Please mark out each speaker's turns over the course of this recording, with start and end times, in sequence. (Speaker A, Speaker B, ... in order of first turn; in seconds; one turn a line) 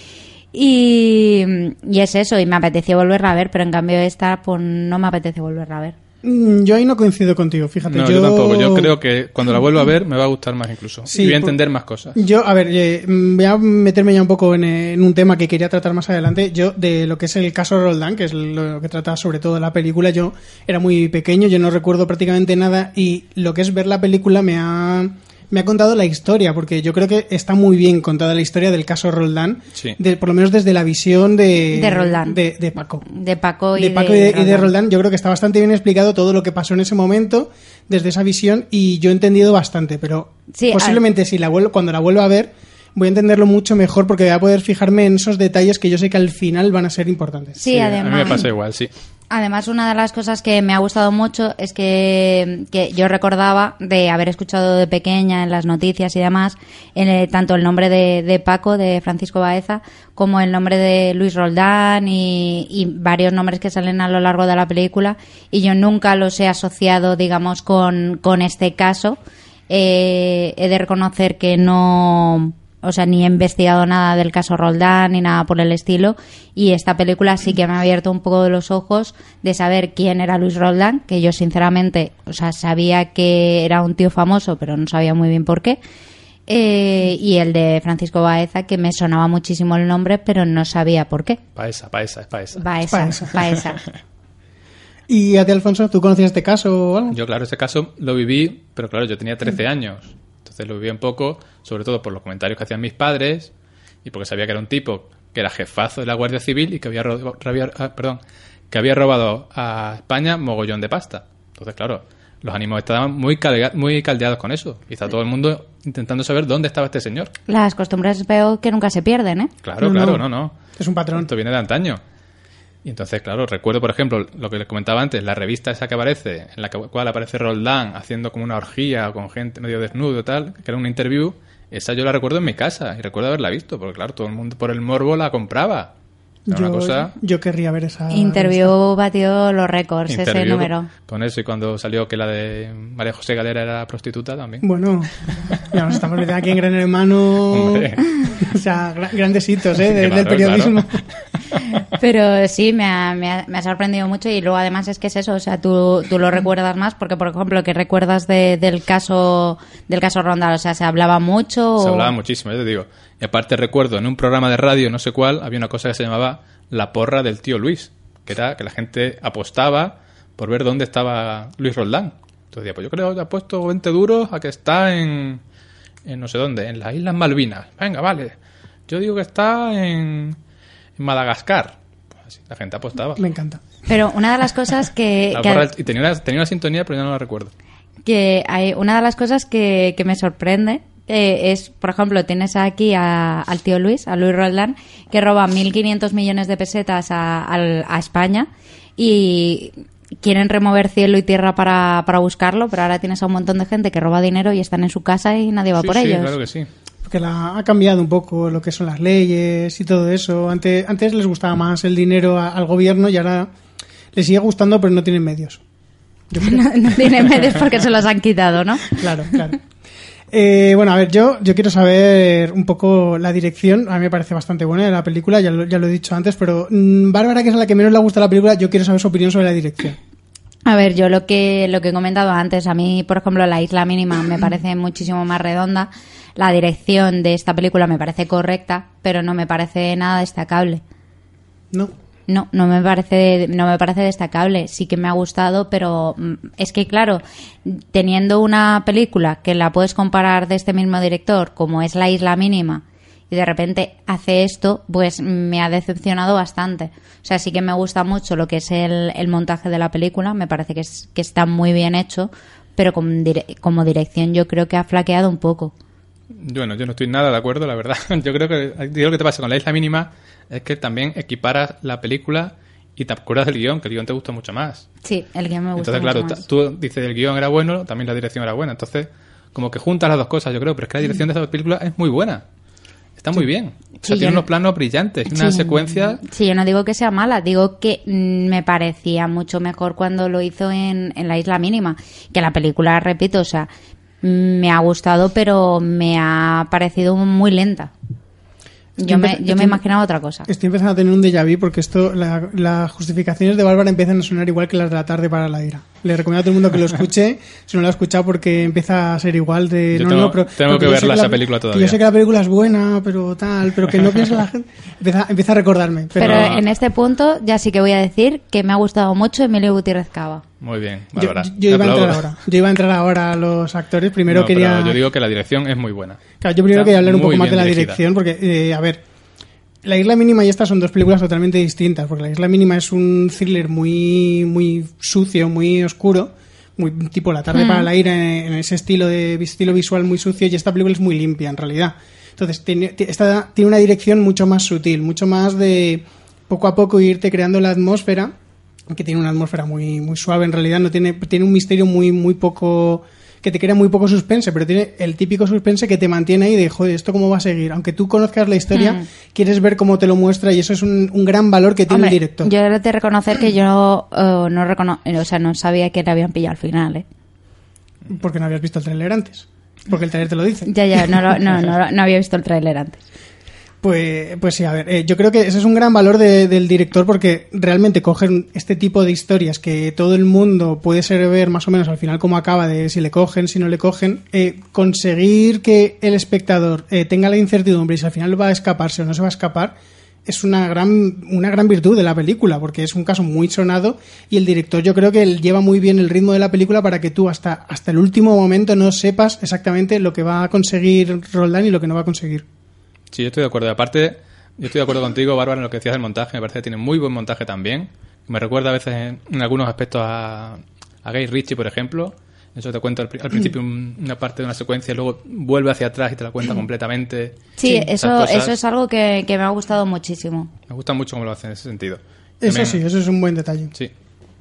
Speaker A: 0.5-6.0
Speaker B: 6.2-8.9
Speaker C: 7.9-12.2
Speaker B: 11.1-11.6
Speaker B: 12.2-33.0
Speaker A: 31.7-32.4
Speaker A: 33.1-34.7
Speaker B: 33.8-47.7
Speaker A: 40.5-41.0
Speaker A: 47.6-48.4
Speaker C: 47.7-48.9
Speaker A: 49.3-69.2
Speaker A: 69.7-85.8
Speaker A: 86.5-91.4
Speaker C: 91.6-92.6
Speaker A: 92.6-93.8
Speaker B: 92.9-93.3
Speaker B: 95.1-97.2
Speaker C: 97.1-103.5
Speaker C: 104.0-108.2
Speaker C: 108.7-117.3
Speaker A: 117.5-119.5
Speaker C: 119.6-120.5
Speaker B: 119.8-121.3
Speaker C: 121.2-122.0
Speaker C: 122.8-135.9
Speaker B: 136.5-138.6
Speaker C: 136.5-137.1
Speaker A: 138.1-140.9
Speaker C: 140.1-144.7
Speaker B: 144.6-151.0
Speaker C: 147.5-148.1
Speaker C: 149.8-150.8
Speaker A: 152.0-162.1
Speaker C: 161.8-175.4
Speaker C: 176.1-178.3
Speaker C: 178.9-180.4
Speaker C: 181.0-181.8
Speaker C: 182.3-183.2
Speaker B: 183.2-183.6
Speaker A: 183.9-185.7
Speaker C: 185.3-187.5
Speaker A: 188.0-206.3
Speaker C: 205.8-206.7
Speaker B: 207.1-213.5
Speaker B: 214.1-215.6
Speaker B: 216.3-216.6
Speaker A: 216.4-219.4
Speaker B: 218.9-219.6
Speaker B: 220.3-230.0
Speaker A: 230.7-240.8
Speaker A: 242.3-265.7
Speaker C: 266.4-274.9
Speaker A: 275.0-276.4
Speaker C: 275.8-282.4
Speaker C: 283.2-286.2
Speaker A: 284.1-284.4
Speaker A: 285.3-293.7
Speaker A: 294.2-297.9
Speaker B: 299.0-299.8
Speaker A: 299.0-300.5
Speaker B: 300.5-316.6
Speaker C: 309.9-312.0
Speaker A: 316.2-320.4
Speaker C: 316.2-316.6
Speaker C: 320.6-322.2
Speaker B: 321.2-325.0
Speaker C: 324.3-328.0
Speaker B: 326.4-329.0
Speaker B: 329.8-348.3
Speaker A: 337.5-337.9
Speaker B: 348.9-362.5
Speaker A: 358.7-359.0
Speaker A: 361.9-367.1
Speaker B: 368.1-371.3
Speaker A: 370.7-373.0
Speaker B: 373.8-389.8
Speaker B: 390.3-402.4
Speaker C: 403.1-418.6
Speaker A: 417.6-420.5
Speaker C: 420.7-422.8
Speaker B: 422.4-423.7